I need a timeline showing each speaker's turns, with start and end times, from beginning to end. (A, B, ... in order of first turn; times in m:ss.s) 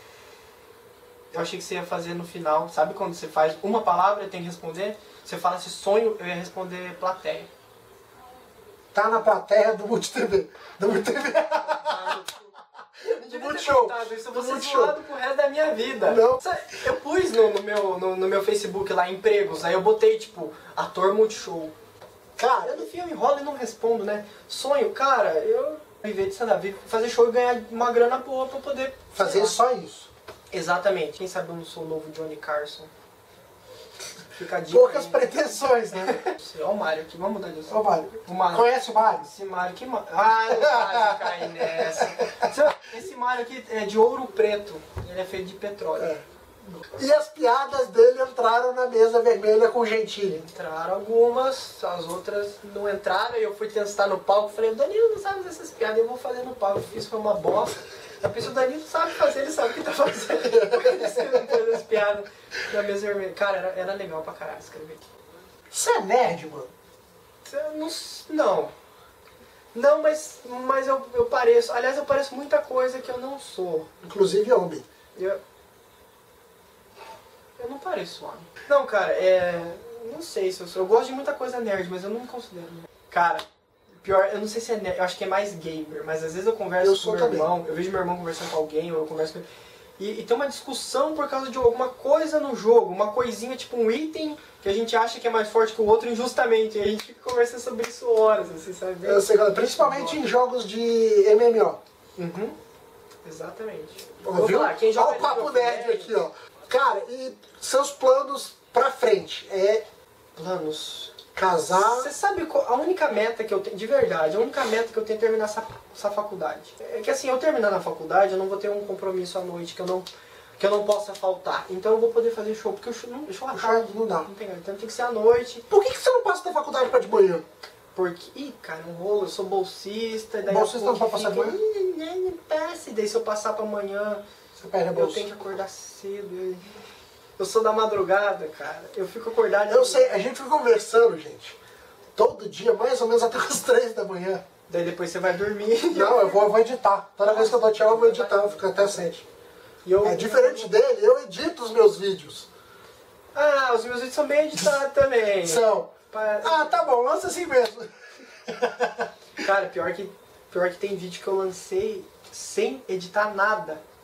0:01.3-0:07.5 A
0:08.9-0:12.3 B
0:11.7-0:12.5 A
0:13.0-0:15.0 B
0:13.0-0:21.7 A
0:16.0-0:16.4 B
0:22.4-0:22.9 B
0:22.6-0:29.6 A
0:29.1-0:30.1 B
0:30.5-0:32.9 A
0:34.4-0:35.4 A
0:34.7-0:36.2 B
0:36.0-0:46.2 A
0:37.7-0:39.3 B
0:40.5-0:42.5 B
0:46.0-0:50.4 B
0:50.3-1:05.1 A
1:00.4-1:01.6 B
1:05.7-1:06.7 B
1:07.4-1:08.7 A
1:09.7-1:13.9 A
1:14.0-1:14.9 B
1:15.2-1:15.4 A
1:17.6-1:23.4 A
1:24.0-1:29.5 A
1:26.8-1:27.5 B
1:30.0-1:40.2 A
1:39.0-1:41.8 B
1:42.2-1:42.6 A
1:43.2-1:46.2 A
1:44.2-1:49.8 B
1:50.4-1:51.2 A
1:51.3-1:52.1 B
1:51.7-2:05.7 A
2:03.5-2:04.3 B
2:05.7-2:07.4 B
2:08.0-2:14.2 A
2:10.5-2:11.6 B
2:14.6-2:15.3 B
2:14.9-2:16.7 A
2:17.4-2:20.1 A
2:19.7-2:21.6 B
2:22.2-2:24.4 B
2:24.7-2:26.5 A
2:25.9-2:29.2 B
2:27.2-2:29.1 A
2:29.8-2:30.8 A
2:30.0-2:32.5 B
2:33.3-2:36.9 A
2:35.4-2:37.9 B
2:38.5-2:39.1 B
2:39.4-2:43.8 A